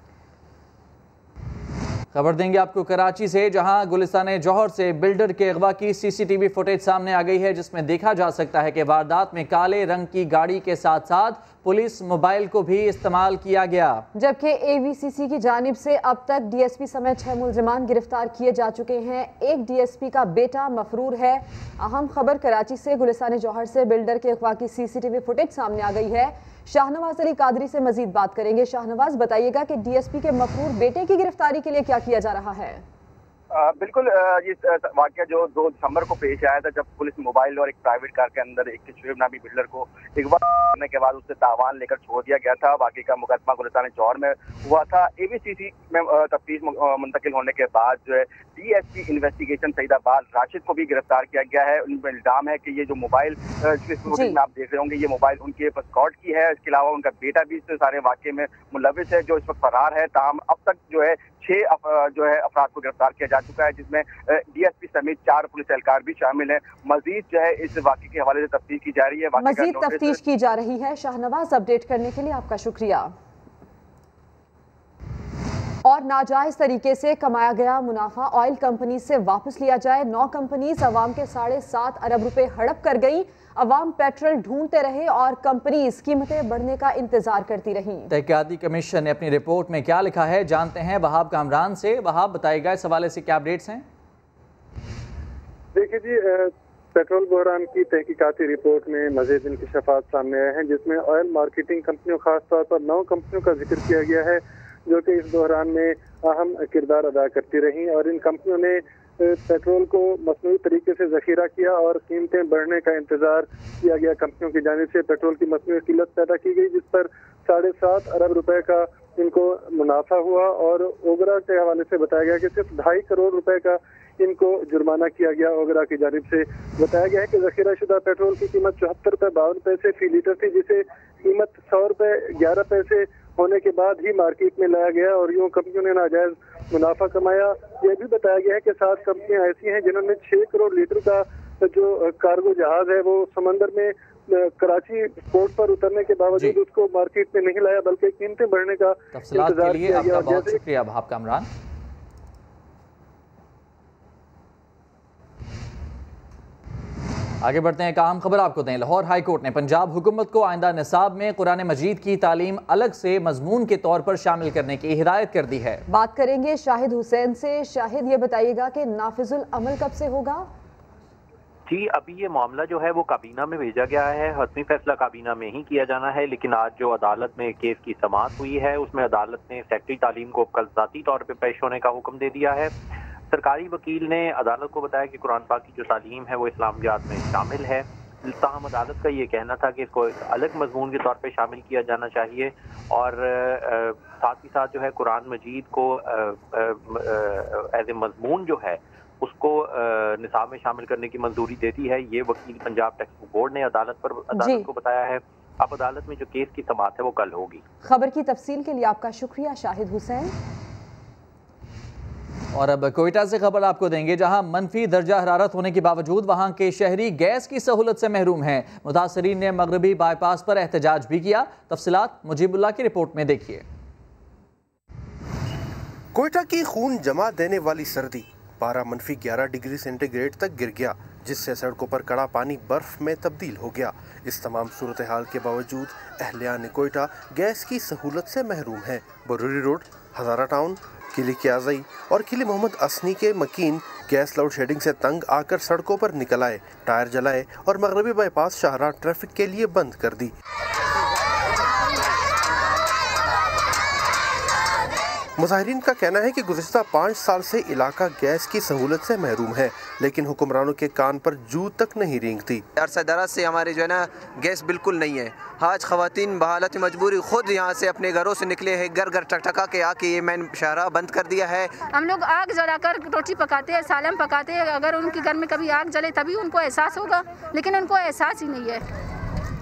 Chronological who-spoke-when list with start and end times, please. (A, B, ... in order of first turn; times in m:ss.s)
0:02.1-0:14.1 A
0:14.2-0:32.8 B
0:33.5-1:10.2 C
0:54.1-0:54.4 B
1:09.4-1:13.1 B
1:15.8-1:28.1 B
1:28.1-1:33.8 A
1:35.8-2:30.6 D
2:29.1-2:31.5 A
2:37.4-2:45.8 A
2:45.9-2:50.5 B
2:51.7-3:02.7 E
3:03.3-3:27.6 E
3:24.4-3:24.7 B
3:27.8-3:30.3 B
3:32.5-3:43.6 A
3:46.1-4:10.3 F
4:15.4-4:22.7 F
4:22.8-4:31.8 G
4:31.8-4:38.8 H